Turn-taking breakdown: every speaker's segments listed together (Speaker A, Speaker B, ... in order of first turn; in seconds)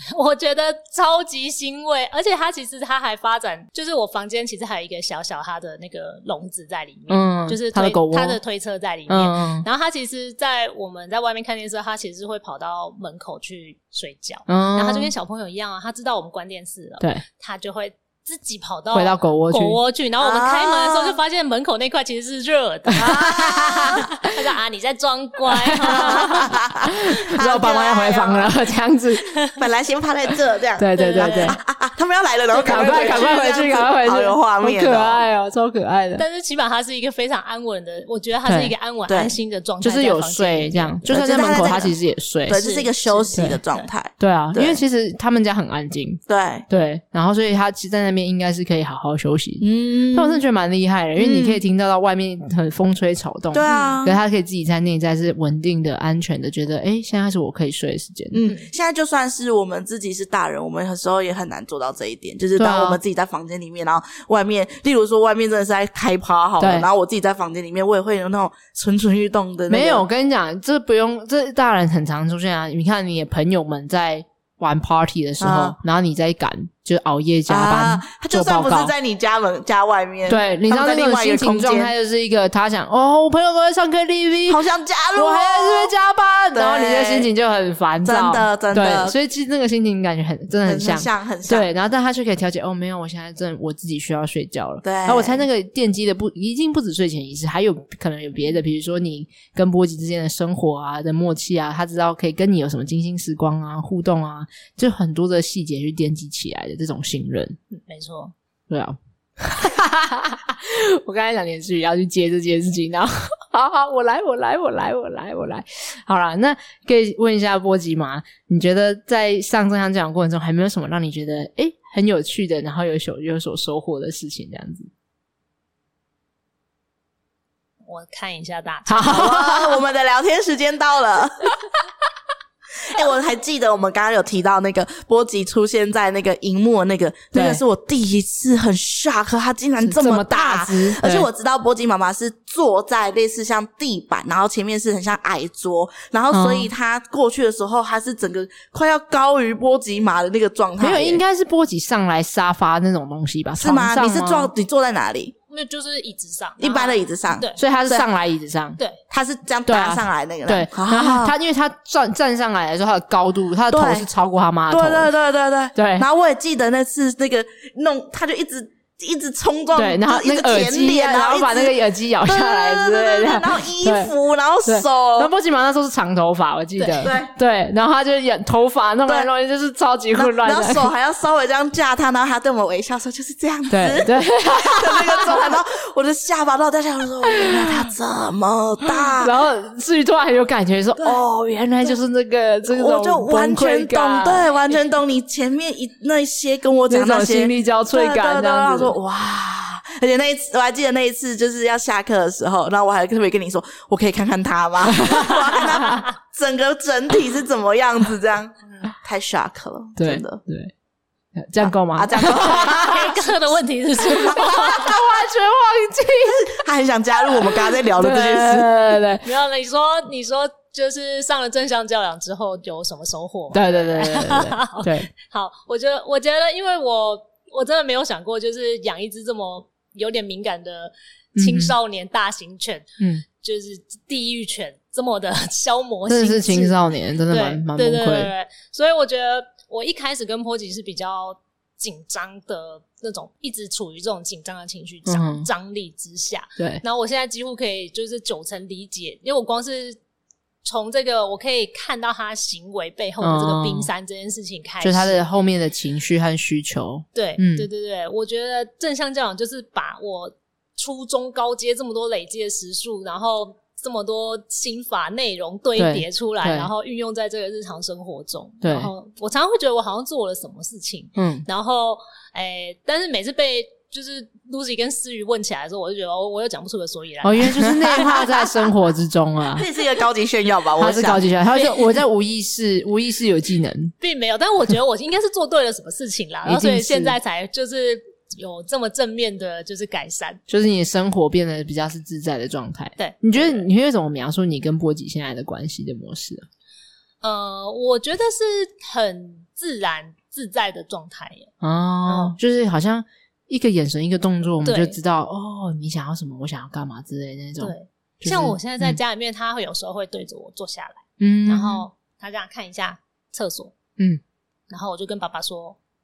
Speaker A: 0.1-26.5, 31.0-31.6, 32.5-33.3, 36.2-41.0, 42.5-43.9, 53.7-54.0, 107.7-108.3, 127.9-129.3, 155.5-157.6, 176.8-177.1, 212.4-214.9, 219.2-232.9, 233.4-236.8, 237.3-250.0, 250.6-255.2, 257.1-278.2, 281.5-281.9, 284.0-290.4, 293.0-293.7, 297.2-301.5, 302.1-302.4, 304.6-305.0, 307.6-313.7, 314.7-315.8
Speaker B: 7.1-8.4, 9.1-9.7, 14.5-15.1, 18.9-19.8, 22.9-24.0, 25.5-29.3, 30.8-31.6, 32.6-36.2, 38.5-38.7, 39.8-42.6, 43.4-43.6, 44.2-58.5, 62.6-63.0, 66.6-66.9, 69.7-78.9, 80.3-84.6, 85.2-107.6, 108.7-124.9, 128.9-129.8, 137.3-137.6, 139.8-141.3, 146.3-146.7, 150.8-154.5, 157.6-158.8, 159.7-165.1, 165.8-166.1, 169.8-174.1, 174.7-180.9, 183.7-185.5, 187.3-187.9, 188.9-194.5, 196.9-198.9, 204.9-206.1, 210.0-210.7, 211.3-213.1, 214.0-216.6, 217.2-219.2, 223.5-225.1, 231.3-231.7, 233.0-233.2, 236.1-238.3, 245.1-245.5, 253.2-253.9, 254.8-257.7, 265.8-266.7, 268.6-268.9, 271.2-271.5, 277.2-279.7, 280.8-283.9, 286.5-287.2, 290.5-296.5, 301.6-309.0, 311.2-311.9
Speaker C: 20.2-21.2, 23.0-24.0, 26.0-28.6, 29.6-35.2, 39.1-39.4, 41.1-42.0, 42.5-44.8, 46.3-46.7, 49.6-50.4, 51.2-51.6, 53.5-54.2, 58.3-70.0, 75.4-75.8, 77.5-81.9, 84.5-85.9, 86.5-87.3, 88.0-89.2, 90.7-91.7, 94.8-95.4, 129.1-131.5, 132.9-151.2, 153.6-155.3, 156.6-158.1, 159.1-161.3, 163.7-164.1, 164.7-175.3, 177.0-177.3, 180.1-189.3, 192.7-210.4, 211.6-213.3, 214.1-214.8, 216.2-218.8, 277.6-278.4, 279.6-281.2